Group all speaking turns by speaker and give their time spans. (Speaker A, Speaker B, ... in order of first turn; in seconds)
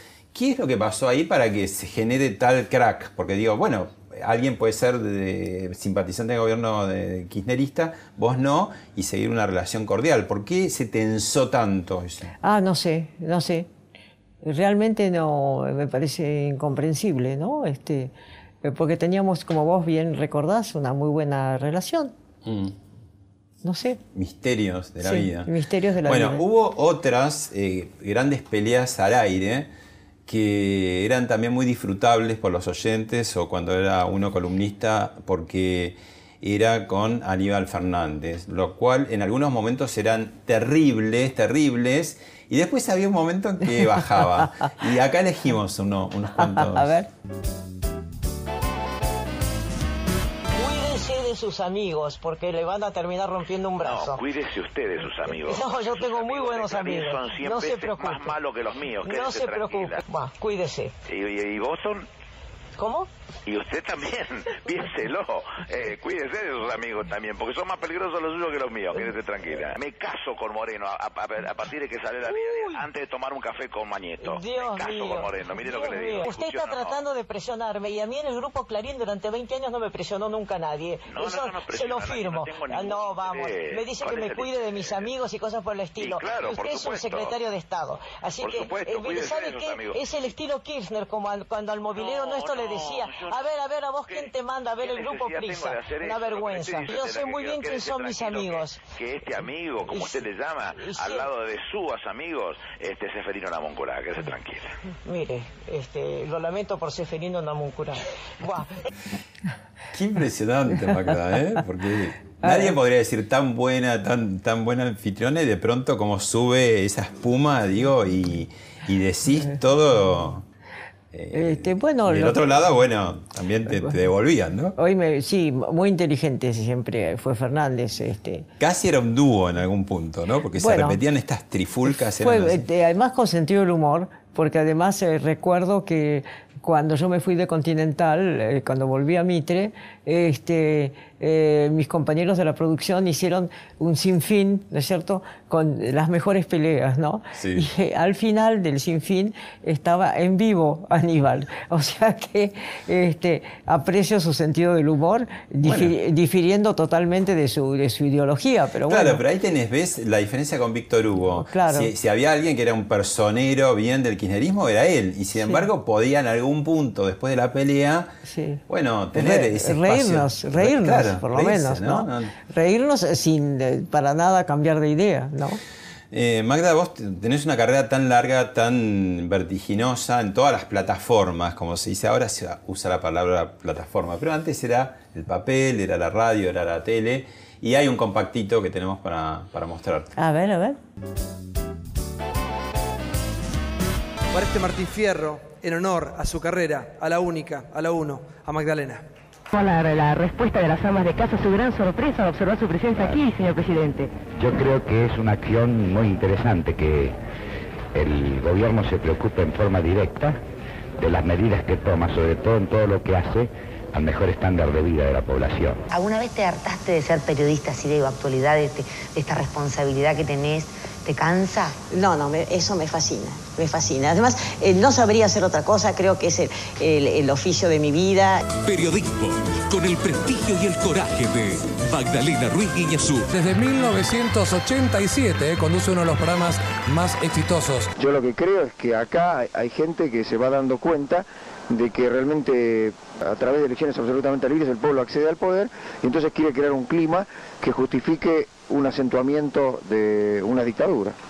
Speaker A: 0.3-12.3, 22.4-22.8, 24.1-25.5, 26.1-29.7, 30.3-47.0, 109.9-120.5, 121.1-124.8, 128.6-132.6, 147.3-147.7, 155.6-155.9, 158.9-168.1, 168.7-172.3, 176.1-190.1
Speaker B: 12.4-13.7, 14.4-22.1, 23.6-24.0, 25.0-26.4, 46.4-47.1, 112.4-112.8, 121.3-122.4, 124.8-128.5, 130.6-131.0, 131.9-159.2, 161.3-161.9, 165.4-165.6, 168.3-168.6, 169.1-175.6, 190.2-190.8
Speaker C: 50.5-53.7, 55.5-57.6, 59.0-60.9, 62.8-63.1, 74.3-82.5, 83.2-84.1, 85.3-85.8, 86.5-87.3, 88.0-89.6, 90.3-92.8, 93.7-95.8, 96.3-98.5, 100.9-101.2, 105.1-107.9
Speaker D: 53.8-60.0, 61.1-62.1, 63.5-77.0, 81.1-85.1, 86.0-87.4, 88.4-90.3, 92.0-104.7
Speaker E: 53.8-54.2, 56.4-58.2, 83.0-85.2, 85.8-86.4, 86.9-89.2, 91.3-93.5, 95.3-98.7, 105.1-105.6, 221.9-228.4
Speaker F: 194.3-199.0
Speaker G: 199.5-204.1
Speaker H: 204.3-207.2, 207.9-210.4, 211.0-215.8
Speaker I: 215.9-221.8
Speaker J: 228.6-233.3
Speaker K: 233.3-237.9
Speaker L: 238.0-251.2